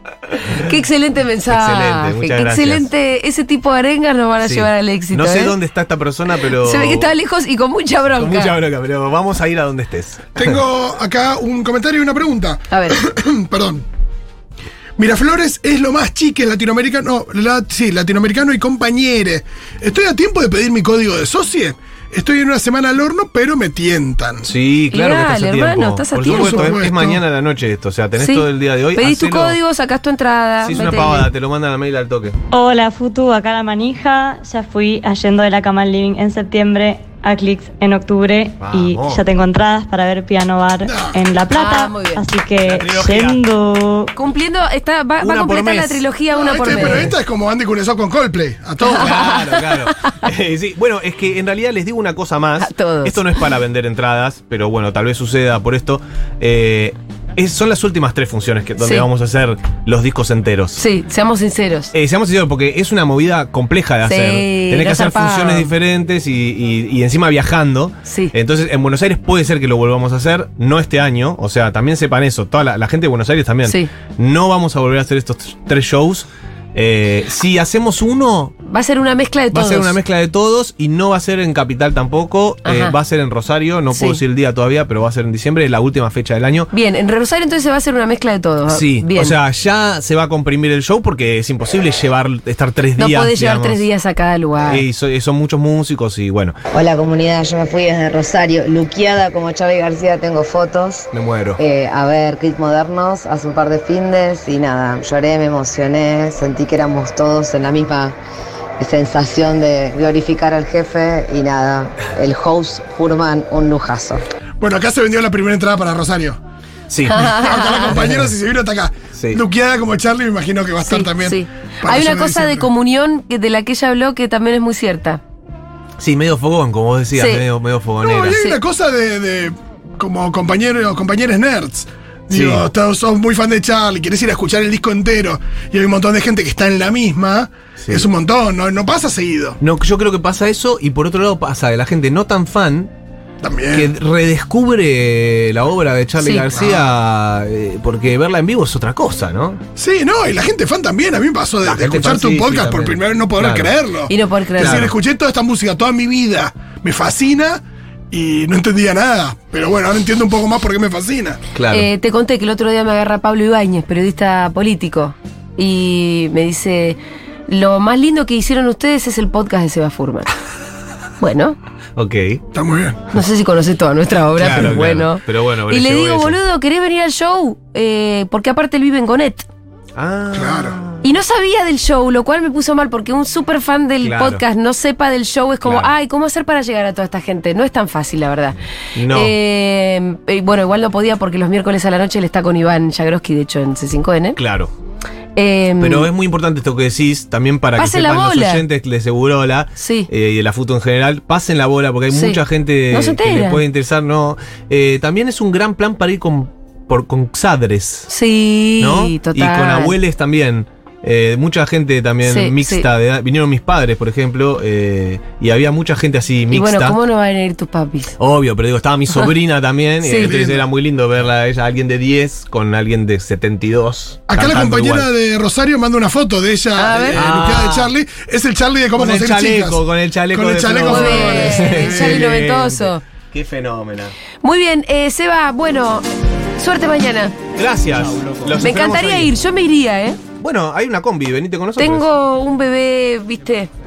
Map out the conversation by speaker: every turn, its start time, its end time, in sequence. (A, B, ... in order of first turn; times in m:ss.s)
0:00.5-0:05.5 A
0:01.5-0:02.9 B
0:04.4-0:07.1 B
0:06.4-0:08.5 A
0:08.2-0:10.6 B
0:10.4-0:13.8 C
0:12.7-0:13.0 A
0:15.0-0:24.5 C
0:24.4-0:29.6 B
0:24.9-0:26.8 A
0:26.3-0:27.2 C
0:28.2-0:31.3 A
0:30.6-0:32.4 B
0:32.5-0:44.1 D
0:38.6-0:39.2 B
0:40.8-0:41.2 C
0:41.5-0:42.2 A
0:42.6-0:43.4 B
0:44.1-0:47.1 A
0:45.2-0:46.0 B
0:46.3-0:49.4 C
0:46.6-0:47.1 B
0:48.8-1:00.8 B
0:48.9-0:50.0 A
0:52.6-0:53.4 A
0:58.8-0:59.0 A
1:00.8-1:01.9 A
1:01.9-1:18.5 B
1:04.0-1:05.7 A
1:08.0-1:08.3 A
1:18.6-1:19.9 A
1:19.5-1:26.7 B
1:22.6-1:22.9 A
1:23.9-1:24.2 A
1:26.7-1:29.4 A
1:28.7-1:33.8 B
1:33.0-1:34.8 A
1:34.6-1:36.6 B
1:36.7-1:48.2 E
1:41.1-1:41.6 B
1:48.8-1:54.2 E
1:54.6-1:56.4 C
1:56.9-1:58.3 B
1:57.0-1:57.9 A
1:57.3-2:02.7 C
1:59.1-1:59.4 B
2:00.8-2:05.2 A
2:06.0-2:08.4 B
2:07.1-2:07.4 A
2:08.0-2:19.6 C
2:08.3-2:08.6 A
2:12.3-2:12.6 B
2:17.8-2:18.1 B
2:19.6-2:22.9 B
2:23.4-2:23.9 C
2:23.7-2:29.6 B
2:26.2-2:26.5 A
2:26.5-2:26.9 C
2:29.8-2:41.4 C
2:31.6-2:33.8 B
2:34.1-2:34.9 A
2:34.6-2:34.9 B
2:41.5-2:41.9 B
2:41.7-2:50.3 A
2:51.2-2:51.6 A
2:52.0-2:52.4 B
2:52.5-2:53.0 C
2:53.1-2:59.4 A
2:54.4-2:56.4 B
2:59.9-3:01.0 B
3:00.3-3:00.8 C
3:01.0-3:08.6 A
3:04.0-3:04.4 B
3:05.6-3:05.9 B
3:09.0-3:09.3 B
3:09.1-3:14.4 A
3:14.4-3:14.7 B
3:15.4-3:16.1 A
3:15.8-3:28.1 B
3:17.8-3:18.6 A
3:19.8-3:20.1 A
3:22.1-3:23.6 A
3:28.1-3:29.9 A
3:28.8-3:37.0 B
3:32.2-3:32.8 A
3:36.5-3:38.2 A
3:38.2-3:45.1 B
3:40.0-3:40.3 A
3:40.1-3:40.6 C
3:44.3-3:49.8 C
3:46.7-3:47.2 A
3:47.1-3:47.9 B
3:49.0-3:54.1 B
3:50.3-3:52.3 C
3:50.9-3:53.0 A
3:54.4-3:56.0 A
3:56.6-3:57.4 A
3:57.5-3:59.3 B
3:58.6-4:00.2 A
4:00.4-4:02.1 B
4:01.8-4:03.7 A